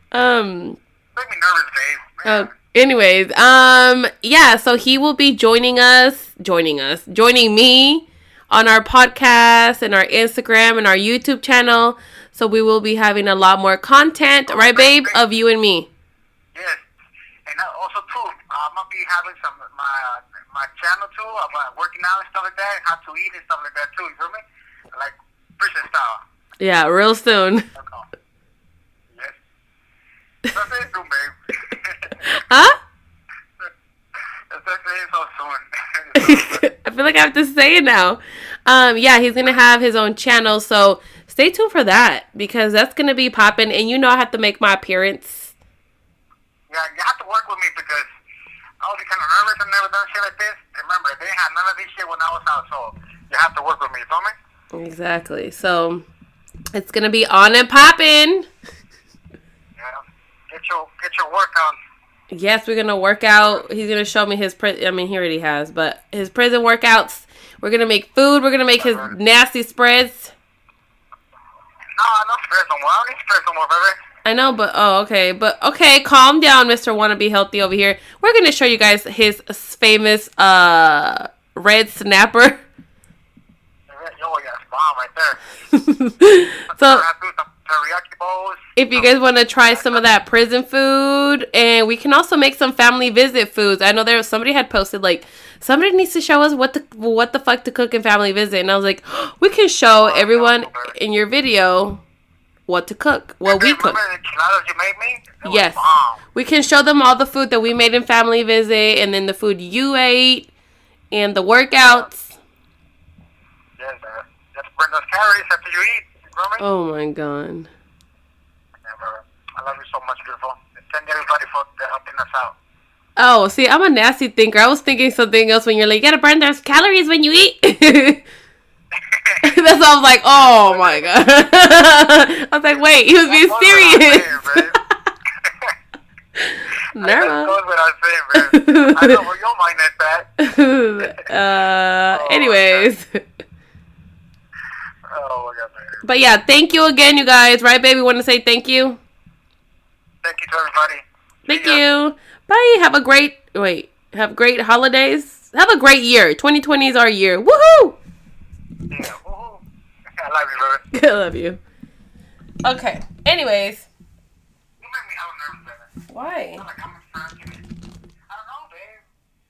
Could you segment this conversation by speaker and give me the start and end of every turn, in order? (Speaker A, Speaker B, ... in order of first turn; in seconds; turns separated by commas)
Speaker A: 0.1-0.8, Speaker B: 1.1-2.5, Speaker A: 2.2-15.9, Speaker B: 14.5-15.2, Speaker B: 16.5-16.8, Speaker B: 17.5-26.2, Speaker A: 26.6-27.7, Speaker B: 27.8-28.1, Speaker B: 29.1-29.4, Speaker B: 30.5-32.2, Speaker A: 32.2-32.8, Speaker B: 34.5-36.7, Speaker A: 36.2-45.5, Speaker B: 46.7-48.1, Speaker B: 48.8-54.4, Speaker A: 54.7-56.0, Speaker A: 56.7-58.5, Speaker B: 59.8-61.8, Speaker A: 62.3-70.3, Speaker B: 68.8-69.1, Speaker B: 72.0-74.0, Speaker A: 74.2-82.6, Speaker B: 83.9-85.4, Speaker A: 85.7-87.0, Speaker B: 86.7-89.2, Speaker A: 88.8-102.0, Speaker B: 89.7-90.0, Speaker B: 100.0-101.0, Speaker A: 102.7-104.0, Speaker B: 103.5-106.2, Speaker A: 105.4-105.8, Speaker A: 106.3-110.5, Speaker A: 111.1-112.4, Speaker B: 111.8-112.1, Speaker B: 113.8-116.6, Speaker A: 116.6-117.7, Speaker B: 118.8-122.5, Speaker A: 123.2-128.2, Speaker B: 129.1-129.5, Speaker A: 129.4-134.8, Speaker B: 130.5-131.1, Speaker B: 133.3-134.8, Speaker B: 135.4-135.7, Speaker A: 136.4-137.5, Speaker B: 137.0-140.3, Speaker A: 138.4-139.2, Speaker A: 140.4-143.2, Speaker B: 142.1-142.9, Speaker B: 145.1-146.0, Speaker A: 146.0-149.0, Speaker B: 150.2-151.8, Speaker A: 151.5-158.0, Speaker B: 158.9-159.6, Speaker B: 160.2-160.8, Speaker A: 160.9-161.6, Speaker A: 162.6-163.9, Speaker B: 164.8-165.9, Speaker A: 166.1-166.6, Speaker B: 166.6-167.7, Speaker B: 168.3-169.1